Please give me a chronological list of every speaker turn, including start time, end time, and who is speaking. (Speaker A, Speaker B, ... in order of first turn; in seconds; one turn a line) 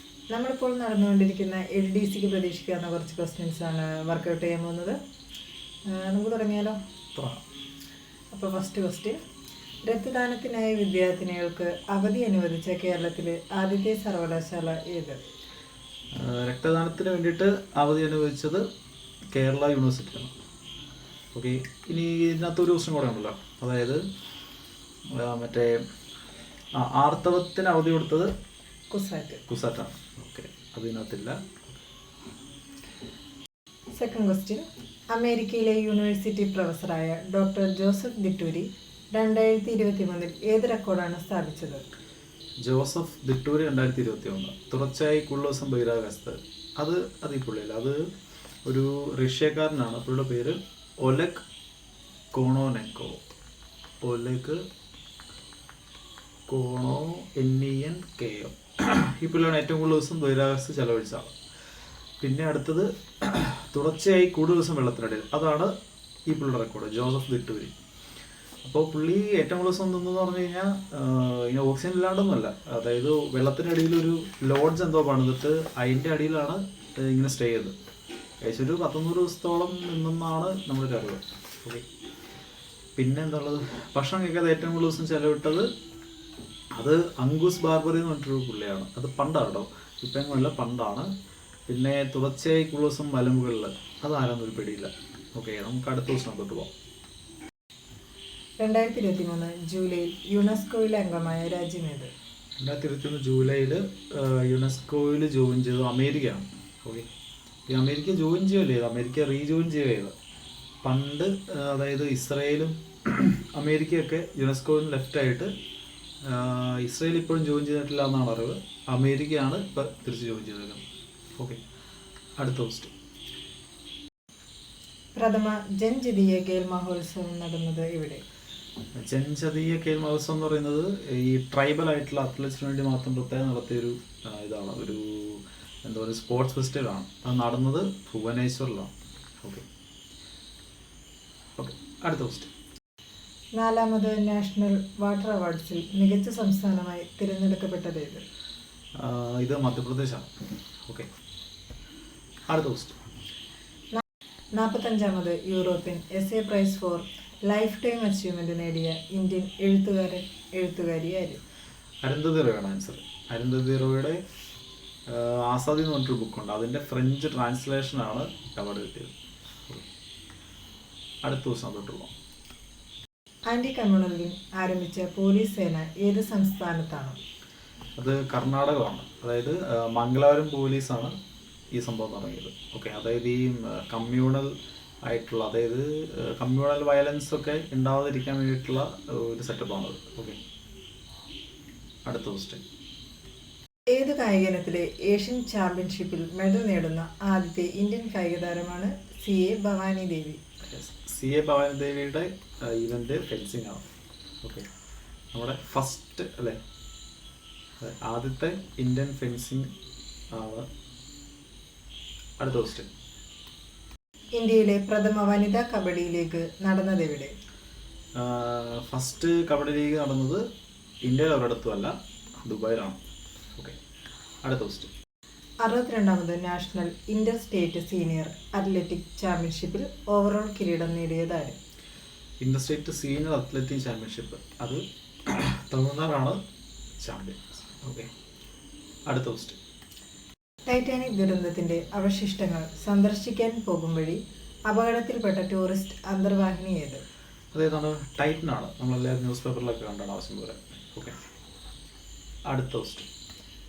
Speaker A: 0.3-5.0
Speaker A: 5.9-6.8
Speaker B: 7.2-7.4
Speaker A: 8.3-9.2
Speaker A: 9.8-15.2
Speaker B: 16.1-18.7
Speaker B: 19.3-20.3
Speaker B: 21.3-24.0
Speaker B: 25.1-25.8
Speaker B: 26.7-28.3
Speaker A: 28.9-29.4
Speaker B: 29.5-31.8
Speaker A: 33.9-41.8
Speaker B: 42.6-48.1
Speaker B: 48.6-51.5
Speaker B: 52.3-53.2
Speaker B: 54.0-54.6
Speaker B: 56.5-61.3
Speaker B: 62.2-65.7
Speaker B: 66.3-67.7
Speaker B: 68.6-77.8
Speaker B: 78.4-81.8
Speaker B: 83.0-85.7
Speaker B: 86.7-91.1
Speaker B: 91.7-96.7
Speaker A: 98.6-102.1
Speaker B: 102.6-107.1
Speaker B: 107.7-110.1
Speaker B: 110.8-115.5
Speaker B: 116.2-120.8
Speaker B: 122.4-122.9
Speaker A: 125.2-128.2
Speaker B: 129.0-138.9
Speaker B: 141.6-142.5
Speaker A: 143.6-148.2
Speaker B: 148.9-150.3
Speaker B: 152.5-153.0
Speaker A: 154.6-161.4
Speaker B: 162.0-164.2
Speaker B: 165.1-169.1
Speaker B: 171.2-172.1
Speaker A: 173.5-177.2
Speaker B: 178.0-181.2
Speaker B: 181.7-184.5
Speaker B: 185.0-190.4
Speaker B: 192.1-192.6
Speaker A: 193.9-200.4
Speaker B: 200.7-203.8
Speaker B: 205.3-206.6
Speaker B: 207.8-209.7
Speaker B: 210.3-210.7
Speaker B: 212.4-212.9
Speaker A: 214.4-217.3
Speaker B: 218.2-220.4
Speaker B: 221.0-223.0
Speaker B: 224.4-224.9
Speaker A: 225.6-231.6
Speaker B: 232.4-236.4
Speaker B: 237.0-238.1
Speaker B: 239.1-239.6
Speaker A: 240.7-247.0
Speaker B: 247.5-251.2
Speaker B: 252.5-253.1